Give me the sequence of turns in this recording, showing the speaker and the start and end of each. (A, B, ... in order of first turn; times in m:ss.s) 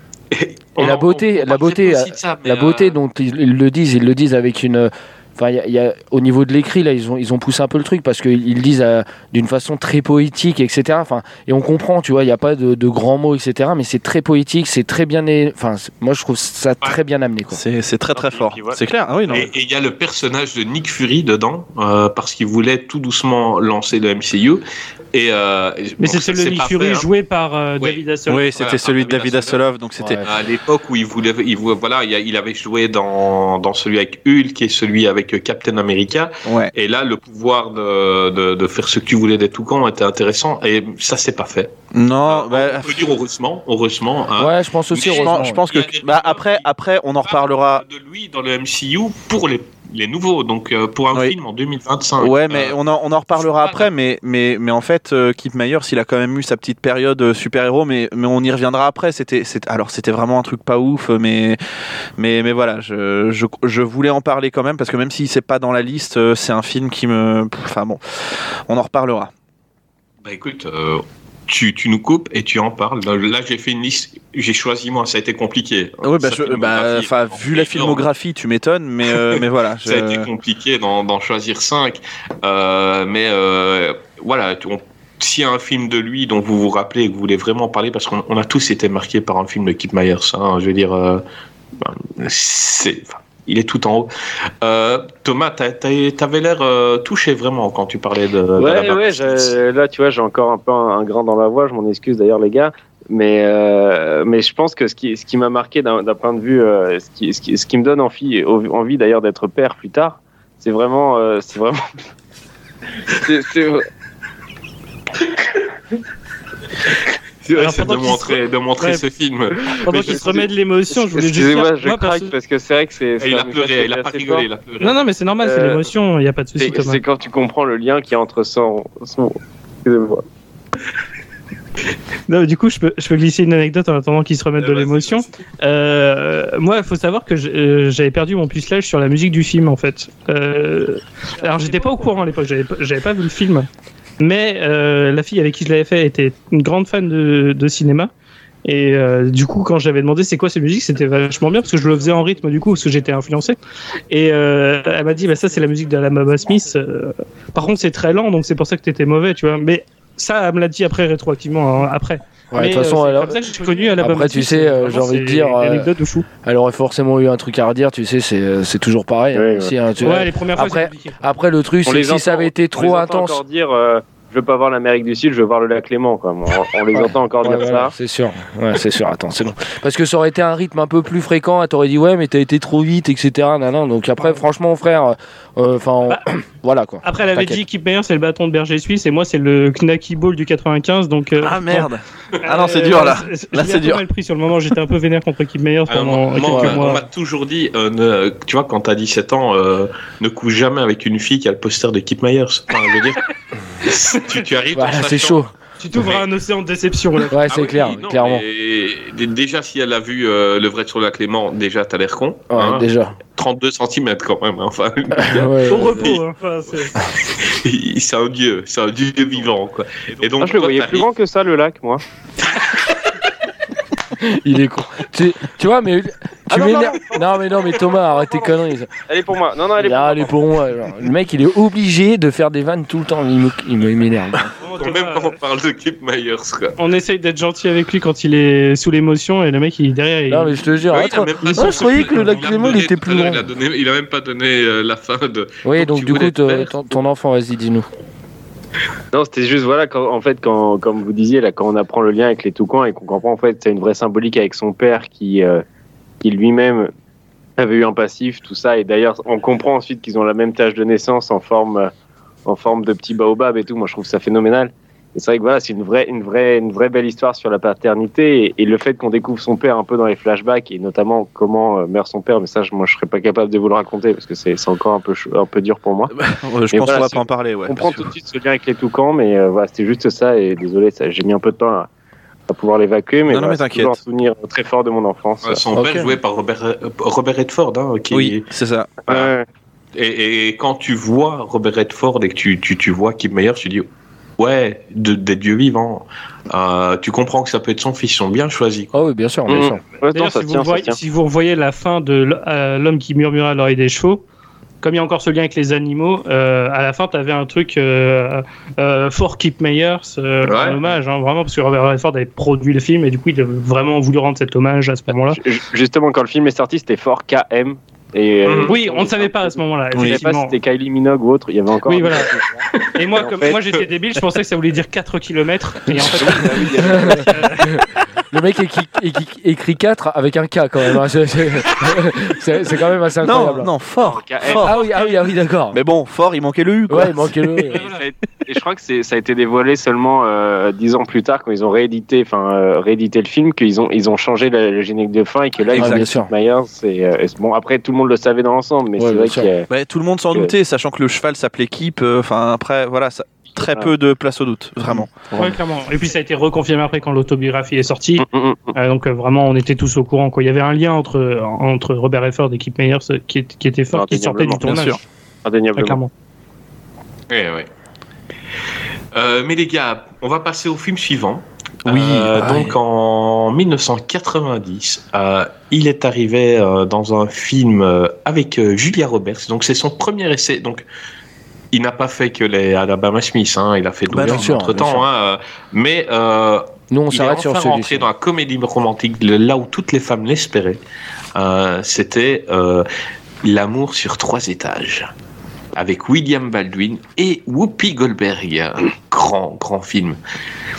0:00.3-0:03.0 A
0:00.8-0:17.6 B
0:17.5-0:19.5 C
0:18.1-0:18.8 D
0:19.3-0:24.6 A
0:25.1-0:27.1 A
0:26.0-0:28.6 E
0:28.3-0:30.2 C
0:28.6-0:29.6 A
0:30.0-0:30.4 B
0:30.2-0:41.7 A
0:36.4-0:36.7 C
0:41.9-0:43.0 C
0:42.3-0:46.7 A
0:44.4-0:45.6 B
0:45.0-0:47.8 C
0:47.2-0:52.8 A
0:52.2-1:01.6 C
0:53.3-0:53.9 A
1:02.2-1:08.0 C
1:08.7-1:09.3 C
1:10.2-1:18.1 A
1:16.0-1:20.3 C
1:19.1-1:31.2 A
1:31.8-1:34.1 A
1:34.6-1:39.6 A
1:38.6-1:52.0 D
1:53.2-1:53.9 D
1:57.4-2:00.4 A
1:57.6-1:59.0 E
1:59.8-2:02.3 E
1:59.9-2:04.5 D
2:03.2-2:05.0 A
2:04.8-2:07.0 E
2:05.4-2:05.9 D
2:06.6-2:10.2 D
2:12.3-2:23.7 E
2:14.6-2:15.2 A
2:24.2-2:28.1 E
2:28.6-2:33.6 E
2:34.1-2:46.3 E
2:42.5-2:43.4 B
2:44.0-2:45.9 B
2:46.4-2:53.4 B
2:49.3-2:49.7 D
2:50.0-2:51.2 E
2:51.8-2:57.9 D
2:56.9-3:07.6 B
3:07.0-3:11.9 E
3:11.4-3:14.0 C
3:12.4-3:17.0 E
3:15.9-3:23.3 A
3:16.5-3:16.9 B
3:23.8-3:26.3 A
3:23.9-3:24.2 E
3:24.8-3:25.5 B
3:25.8-3:27.5 E
3:27.3-3:28.4 B
3:27.5-3:36.2 A
3:32.5-3:33.2 B
3:35.2-3:36.1 B
3:35.7-3:37.0 E
3:37.0-3:41.1 A
3:40.4-3:42.0 D
3:42.6-3:42.9 A
3:44.2-3:48.9 B
3:46.5-3:47.2 D
3:49.1-3:50.4 D
3:49.8-3:54.5 B
3:54.6-3:55.4 E
3:54.8-3:56.8 A
3:56.8-4:00.7 E
4:00.3-4:02.8 B
4:00.9-4:07.0 A
4:01.5-4:03.4 C
4:05.6-4:07.9 B
4:09.1-4:15.6 D
4:16.2-4:16.9 D
4:17.6-4:21.9 D
4:22.5-4:36.1 D
4:36.1-4:38.1 C
4:36.7-4:41.9 D
4:42.5-4:45.6 D
4:43.3-4:44.0 C
4:45.4-4:48.4 A
4:45.7-4:46.1 C
4:48.1-4:48.9 C
4:49.1-4:49.5 D
4:50.0-4:53.9 A
4:54.4-4:58.9 A
4:58.9-4:59.8 B
4:59.5-5:01.0 D
5:00.1-5:04.2 E
5:04.8-5:15.4 E
5:10.4-5:10.8 A
5:15.1-5:23.6 D
5:18.4-5:18.7 A
5:18.6-5:20.6 E
5:19.9-5:20.2 C
5:21.9-5:22.3 E
5:23.0-5:27.8 E
5:25.9-5:33.7 B
5:26.1-5:27.5 D
5:33.2-5:34.8 C
5:34.0-5:34.7 D
5:34.5-5:35.8 B
5:35.7-5:37.8 C
5:36.9-5:37.8 B
5:37.7-5:38.0 E
5:37.8-5:49.7 D
5:45.7-5:46.1 C
5:45.7-5:46.3 B
5:49.0-5:49.5 B
5:49.7-5:55.3 C
5:53.6-5:53.9 D
5:55.4-6:05.0 E
5:58.2-5:58.7 D
6:03.9-6:04.7 D
6:04.6-6:05.0 C
6:05.4-6:06.0 D
6:05.8-6:06.1 E
6:07.3-6:07.7 A
6:09.1-6:20.9 A
6:11.8-6:12.8 C
6:21.7-6:30.8 A
6:24.1-6:25.1 B
6:24.3-6:24.6 C
6:26.9-6:28.1 B
6:31.4-6:32.9 A
6:33.4-6:35.1 A
6:35.8-6:40.2 A